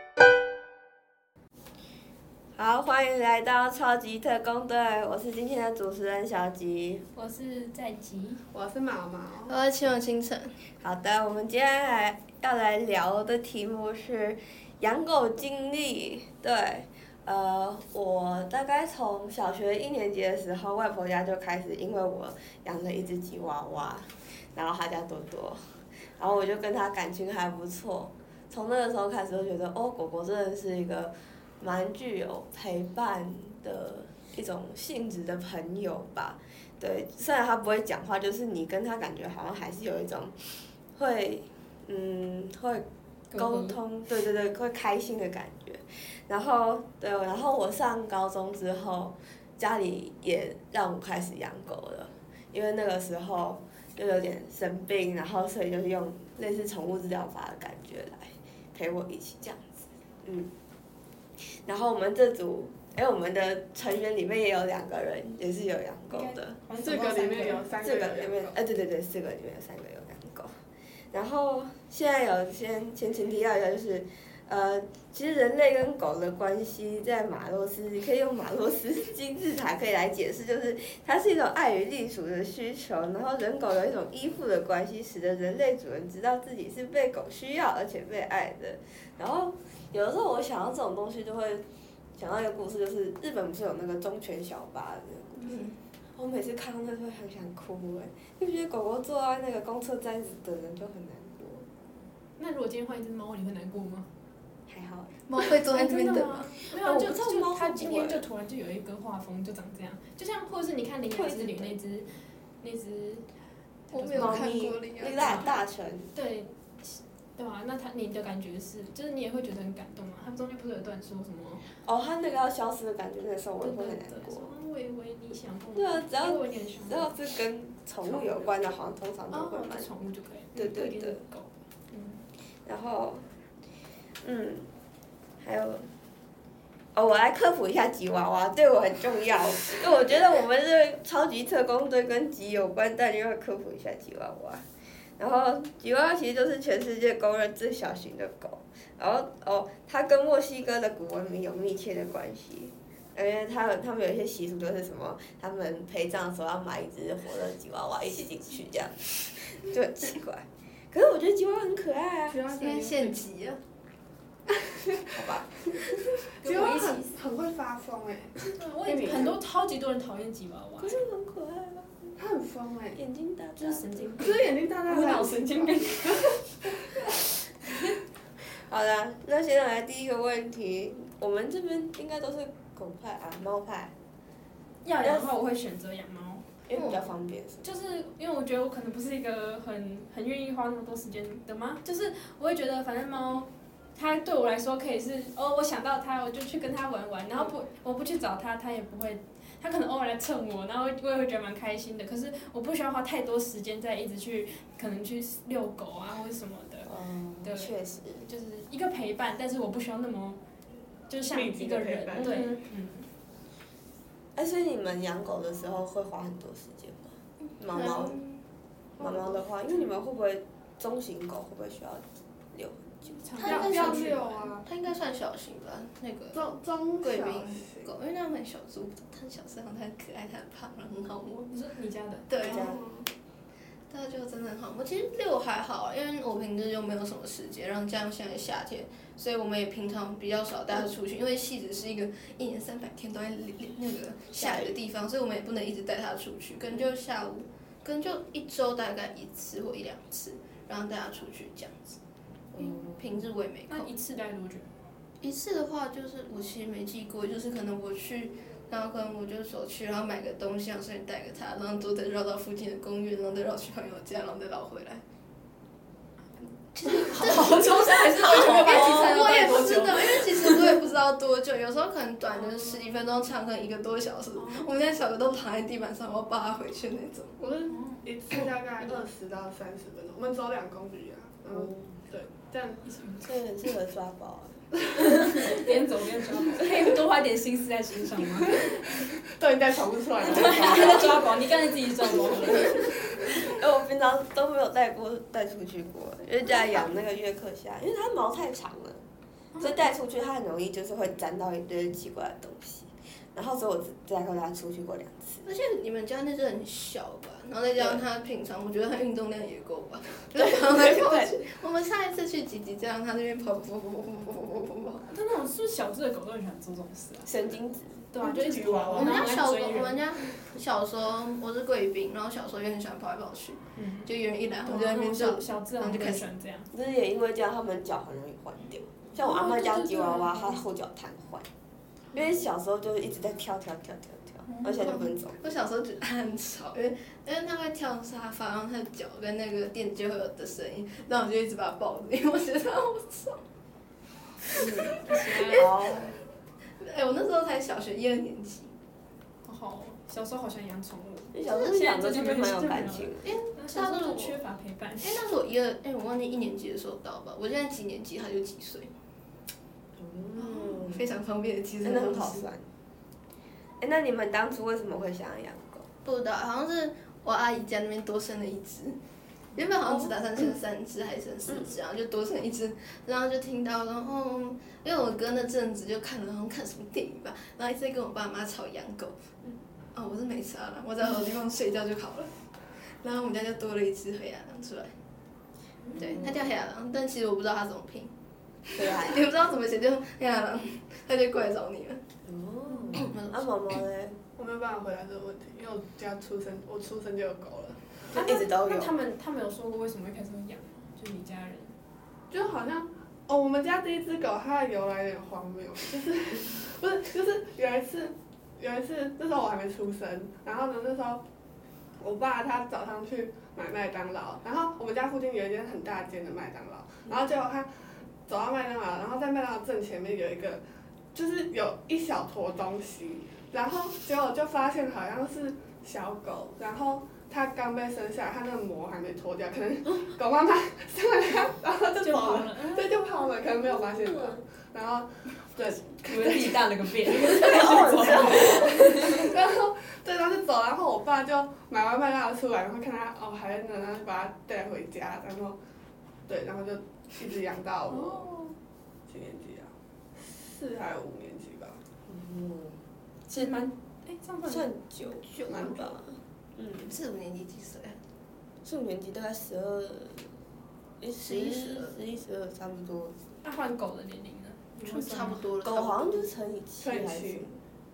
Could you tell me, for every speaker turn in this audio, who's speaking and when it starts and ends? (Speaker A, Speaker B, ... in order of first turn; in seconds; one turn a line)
Speaker A: 2.6-7.0
Speaker B: 7.2-8.4
Speaker C: 8.5-9.5
Speaker D: 9.5-10.5
Speaker A: 10.8-60.5
Speaker B: 43.3-43.8
Speaker A: 61.4-66.6
Speaker B: 66.1-67.7
Speaker C: 66.8-68.6
Speaker A: 67.8-70.5
Speaker A: 71.1-91.7
Speaker A: 92.2-95.6
Speaker D: 95.5-95.8
Speaker A: 96.2-101.7
Speaker B: 102.4-104.1
Speaker A: 104.7-105.2
Speaker D: 105.3-106.6
Speaker B: 105.7-113.3
Speaker A: 106.7-108.2
Speaker A: 111.2-111.8
Speaker B: 113.9-114.5
Speaker D: 113.9-115.5
Speaker A: 114.1-116.1
Speaker B: 115.2-115.5
Speaker B: 116.1-121.6
Speaker A: 121.8-124.5
Speaker B: 123.6-127.1
Speaker A: 125.8-129.9
Speaker B: 128.0-128.5
Speaker B: 129.3-132.2
Speaker A: 130.6-131.2
Speaker A: 132.7-133.3
Speaker A: 134.2-134.7
Speaker A: 135.4-135.9
Speaker A: 136.9-144.7
Speaker A: 145.2-162.4
Speaker C: 162.3-163.2
Speaker D: 162.6-163.6
Speaker C: 164.5-165.2
Speaker A: 165.1-165.9
Speaker B: 166.4-167.2
Speaker C: 166.4-169.4
Speaker B: 168.4-171.0
Speaker A: 170.8-172.2
Speaker C: 172.2-173.0
Speaker A: 173.0-174.1
Speaker B: 173.6-176.4
Speaker C: 174.2-176.7
Speaker A: 178.5-183.9
Speaker B: 184.8-186.4
Speaker A: 185.0-185.3
Speaker A: 186.7-187.7
Speaker B: 187.6-206.9
Speaker A: 206.8-208.3
Speaker B: 207.4-207.7
Speaker B: 208.2-210.4
Speaker B: 211.1-213.1
Speaker C: 211.3-212.5
Speaker A: 212.2-212.6
Speaker A: 214.4-218.2
Speaker D: 217.7-218.4
Speaker A: 219.0-223.2
Speaker B: 223.2-224.5
Speaker D: 223.4-224.1
Speaker C: 223.4-224.7
Speaker D: 224.6-226.5
Speaker C: 226.3-227.9
Speaker D: 227.0-231.5
Speaker B: 231.5-232.3
Speaker D: 232.3-233.0
Speaker A: 232.4-232.8
Speaker C: 232.5-233.0
Speaker D: 233.9-252.0
Speaker A: 244.3-244.8
Speaker A: 252.5-253.2
Speaker D: 252.6-253.9
Speaker B: 253.7-254.7
Speaker D: 255.2-265.0
Speaker D: 266.8-277.4
Speaker B: 266.8-270.8
Speaker A: 268.7-269.0
Speaker B: 272.4-272.9
Speaker B: 274.4-274.7
Speaker C: 277.4-282.9
Speaker B: 277.7-278.1
Speaker A: 281.5-282.0
Speaker B: 282.9-283.3
Speaker A: 283.2-284.7
Speaker B: 285.0-288.8
Speaker C: 289.2-291.4
Speaker B: 290.2-292.9
Speaker A: 293.3-299.0
Speaker A: 299.6-305.5
Speaker D: 305.4-315.1
Speaker A: 307.8-308.0
Speaker A: 310.3-311.4
Speaker B: 315.1-317.3
Speaker A: 317.2-318.1
Speaker B: 318.1-320.0
Speaker C: 318.2-319.4
Speaker D: 318.9-326.2
Speaker B: 323.8-324.1
Speaker B: 324.6-326.7
Speaker A: 326.7-331.5
Speaker B: 329.2-330.6
Speaker A: 332.1-335.6
Speaker B: 334.5-335.0
Speaker D: 334.7-343.4
Speaker A: 344.6-346.2
Speaker D: 344.6-346.1
Speaker B: 345.0-345.7
Speaker D: 346.8-348.7
Speaker B: 349.4-355.2
Speaker A: 351.3-353.4
Speaker D: 353.2-354.4
Speaker D: 355.0-358.9
Speaker A: 360.0-361.1
Speaker D: 360.4-362.5
Speaker A: 361.8-362.7
Speaker A: 363.8-365.9
Speaker D: 366.0-369.0
Speaker D: 369.6-379.2
Speaker A: 369.9-370.1
Speaker A: 371.5-371.7
Speaker D: 379.9-382.3
Speaker D: 383.0-384.9
Speaker D: 385.9-388.1
Speaker A: 386.0-386.5
Speaker A: 388.8-389.3
Speaker D: 388.8-392.0
Speaker A: 392.3-394.2
Speaker D: 392.9-393.7
Speaker C: 394.4-397.8
Speaker A: 398.1-398.9
Speaker B: 398.1-401.8
Speaker C: 402.3-411.2
Speaker C: 412.0-417.7
Speaker C: 418.3-420.6
Speaker C: 421.1-436.7
Speaker B: 432.0-432.9
Speaker A: 433.8-434.4
Speaker B: 436.1-439.3
Speaker A: 437.3-439.1
Speaker C: 437.4-445.6
Speaker C: 446.3-448.3
Speaker B: 447.9-448.6
Speaker C: 449.1-451.8
Speaker A: 452.1-453.6
Speaker B: 453.3-454.7
Speaker A: 454.5-456.9
Speaker C: 455.5-456.0
Speaker D: 456.8-458.0
Speaker A: 458.6-460.3
Speaker A: 461.0-463.1
Speaker D: 461.2-461.9
Speaker B: 463.4-465.4
Speaker D: 464.9-466.3
Speaker A: 465.6-467.6
Speaker C: 466.8-467.5